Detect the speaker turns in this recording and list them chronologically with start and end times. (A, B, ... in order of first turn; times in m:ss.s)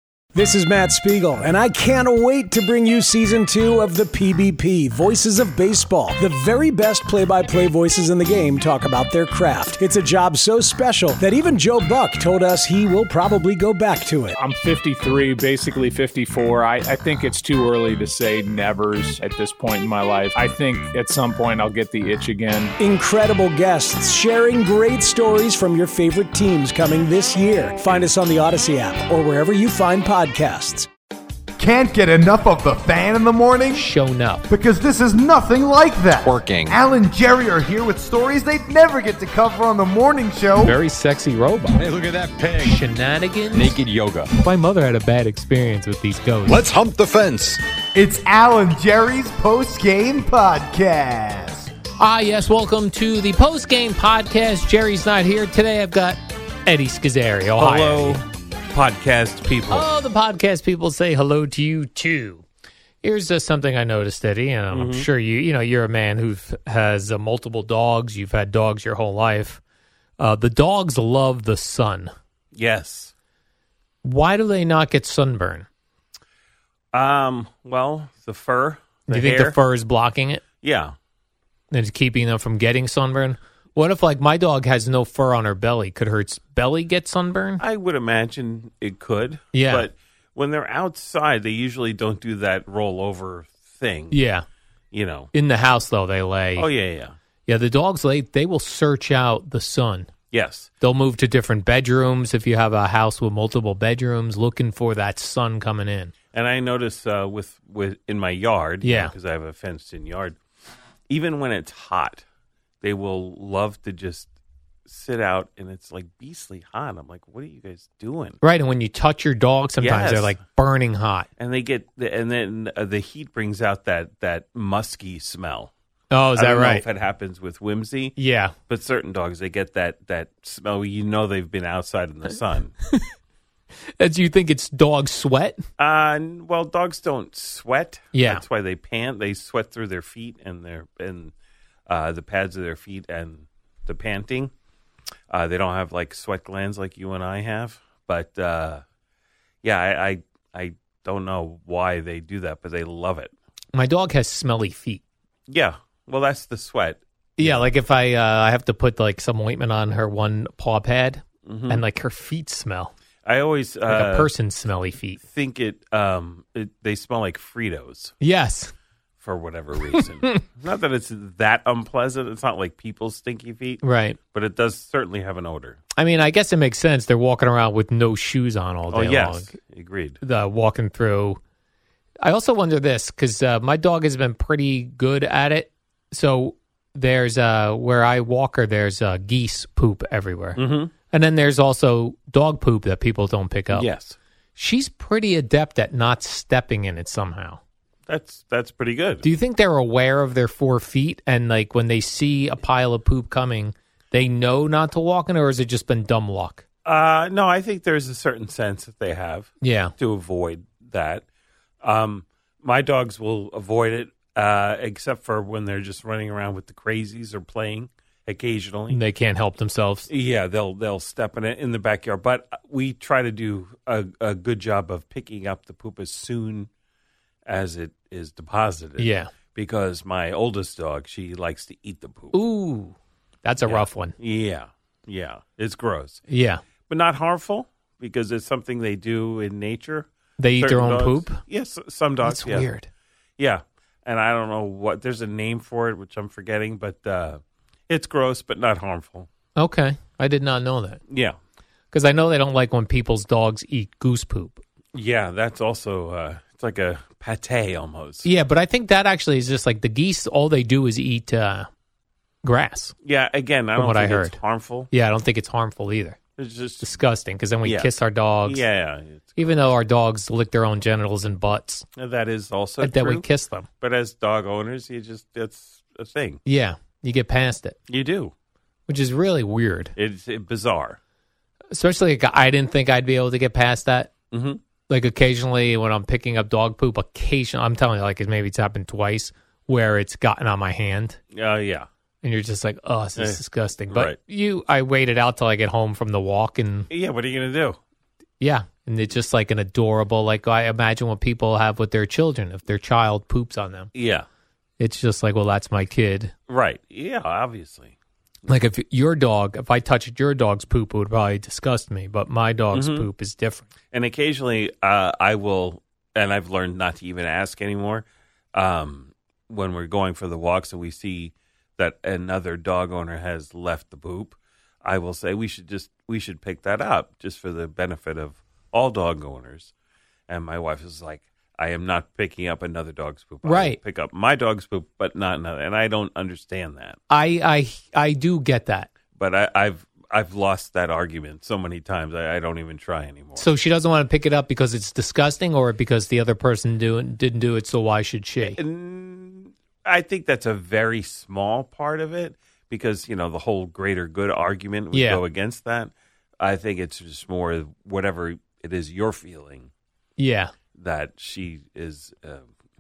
0:00.3-0:14.4 A
0:14.4-0:22.8 B
0:22.8-0:30.9 A
0:31.6-0:33.9 C
0:33.8-0:34.5 D
0:34.5-0:40.8 C
0:36.2-0:36.8 E
0:40.6-0:41.8 D
0:41.7-0:42.8 E
0:42.6-0:43.8 D
0:43.5-0:44.3 E
0:44.4-0:46.7 D
0:46.5-0:47.6 E
0:48.0-0:51.7 C
0:52.0-0:58.2 D
0:57.6-0:59.9 F
0:59.7-1:02.4 D
1:03.0-1:09.6 D
1:04.7-1:05.1 F
1:10.2-1:12.1 D
1:12.5-1:13.1 F
1:14.0-1:15.7 D
1:16.9-1:19.6 F
1:19.1-1:20.4 D
1:20.6-1:20.9 F
1:21.7-1:27.6 D
1:27.6-1:34.2 F
1:29.5-1:29.9 D
1:34.1-1:34.4 D
1:34.9-1:35.3 F
1:35.3-1:36.7 D
1:36.6-1:37.2 F
1:37.5-1:40.1 D
1:40.3-1:40.7 F
1:40.8-1:46.1 D
1:46.3-1:50.4 F
1:48.8-1:49.1 D
1:51.1-1:52.2 F
1:52.8-1:54.3 F
1:54.9-1:58.4 F
1:58.4-2:01.3 D
1:59.8-2:00.4 F
2:01.4-2:05.7 F
2:06.1-2:06.8 D
2:06.4-2:08.2 F
2:08.2-2:08.5 D
2:08.7-2:12.7 F
2:14.0-2:15.6 D
2:15.8-2:21.3 F
2:18.1-2:18.4 D
2:21.9-2:24.5 F
2:25.3-2:28.8 F
2:29.6-2:33.3 F
2:33.7-2:35.0 D
2:35.5-2:37.7 F
2:37.4-2:42.9 D
2:41.5-2:41.8 F
2:43.2-2:44.3 F
2:43.9-2:45.2 D
2:45.2-2:48.2 F
2:48.2-2:48.7 D
2:49.2-2:55.8 F
2:50.0-2:50.4 D
2:53.8-2:54.2 D
2:56.0-2:59.5 D
2:58.9-3:00.2 F
3:00.2-3:01.4 D
3:02.2-3:13.9 D
3:10.6-3:10.9 F
3:13.7-3:14.2 F
3:14.6-3:17.6 D
3:18.1-3:19.2 F
3:19.2-3:26.6 D
3:26.8-3:31.2 F
3:29.6-3:29.9 D
3:31.8-3:39.0 F
3:38.9-3:40.1 D
3:40.1-3:46.7 F
3:47.5-3:52.4 F
3:49.0-3:49.3 D
3:52.3-3:54.2 D
3:53.6-3:56.2 F
3:56.3-3:56.6 D
3:56.9-4:02.7 F
4:00.4-4:01.4 D
4:02.2-4:02.9 D
4:03.4-4:09.3 F
4:09.6-4:11.0 D
4:11.1-4:11.4 F
4:11.9-4:14.6 D
4:14.9-4:18.3 F
4:18.2-4:21.7 D
4:22.4-4:22.9 D
4:23.0-4:24.9 F
4:23.8-4:24.4 D
4:24.9-4:26.2 D
4:26.4-4:27.0 F
4:26.8-4:28.6 D
4:27.6-4:27.9 F
4:28.5-4:29.6 F
4:29.4-4:31.8 D
4:32.0-4:33.2 F
4:32.8-4:33.7 D
4:33.8-4:36.4 F
4:36.5-4:37.8 D
4:37.9-4:38.3 F
4:38.9-4:39.9 D
4:40.0-4:41.0 F
4:41.7-4:44.1 D
4:44.3-4:44.6 F
4:44.9-4:51.2 D
4:51.3-4:51.9 F
4:52.2-4:56.9 D
4:53.2-4:54.2 F
4:56.9-4:57.8 F
4:58.4-5:03.9 D
5:03.9-5:04.3 F
5:04.8-5:06.3 D
5:06.5-5:08.0 F
5:08.5-5:13.7 D
5:12.7-5:13.1 F
5:13.9-5:29.7 F
5:30.3-5:37.0 F
5:33.4-5:33.8 D
5:37.1-5:38.9 D
5:39.2-5:43.5 F
5:43.4-5:48.6 D
5:48.4-5:59.7 F
5:54.9-5:55.2 D
6:00.2-6:00.5 D
6:00.8-6:02.5 F